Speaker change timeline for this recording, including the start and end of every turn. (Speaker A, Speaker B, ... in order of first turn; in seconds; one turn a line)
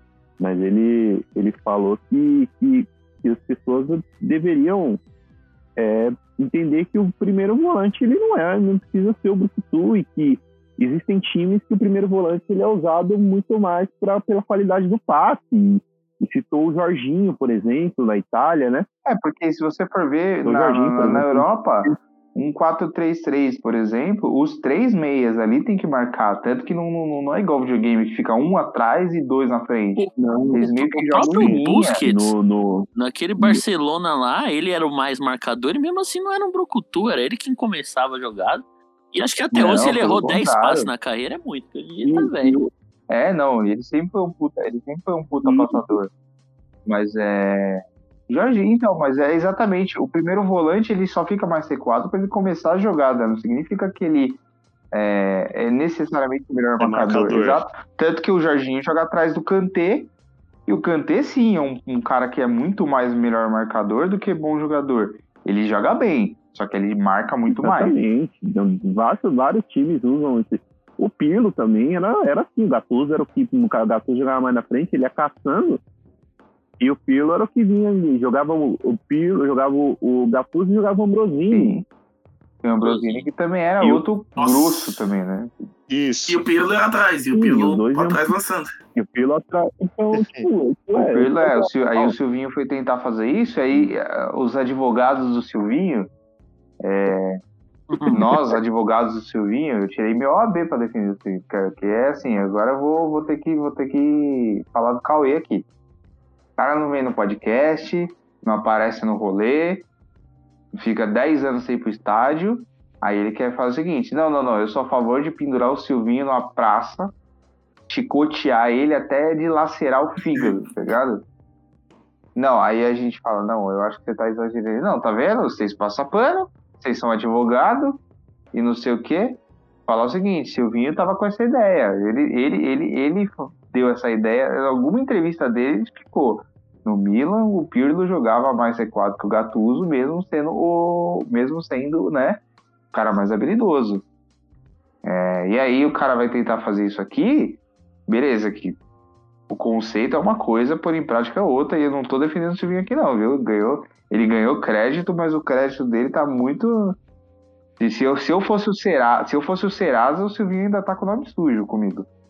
Speaker A: 0.4-5.0
Speaker A: 5.8-18.9
Speaker B: 19.1-32.0
Speaker A: 20.4-21.9
Speaker A: 30.0-32.9
Speaker C: 30.7-32.3
Speaker C: 33.0-42.6
Speaker B: 39.5-40.9
Speaker A: 42.0-42.7
Speaker B: 43.1-46.1
Speaker A: 45.4-46.0
Speaker B: 46.9-54.4
Speaker B: 54.9-60.1
Speaker D: 56.8-57.6
Speaker B: 60.7-68.0
Speaker A: 67.5-75.8
Speaker A: 76.8-81.8
Speaker B: 81.5-81.8
Speaker B: 82.6-85.5
Speaker C: 82.8-83.3
Speaker D: 85.9-86.5
Speaker E: 86.3-88.7
Speaker A: 87.3-88.3
Speaker A: 88.9-92.1
Speaker D: 90.1-90.5
Speaker B: 91.0-96.1
Speaker B: 96.8-97.4
Speaker C: 97.9-98.2
Speaker B: 98.1-105.6
Speaker B: 106.6-109.8
Speaker B: 110.7-117.1
Speaker B: 117.9-121.2
Speaker B: 122.3-128.0
Speaker B: 128.5-142.4
Speaker B: 142.9-144.0
Speaker B: 145.0-148.8
Speaker B: 149.5-156.9
Speaker B: 157.8-162.1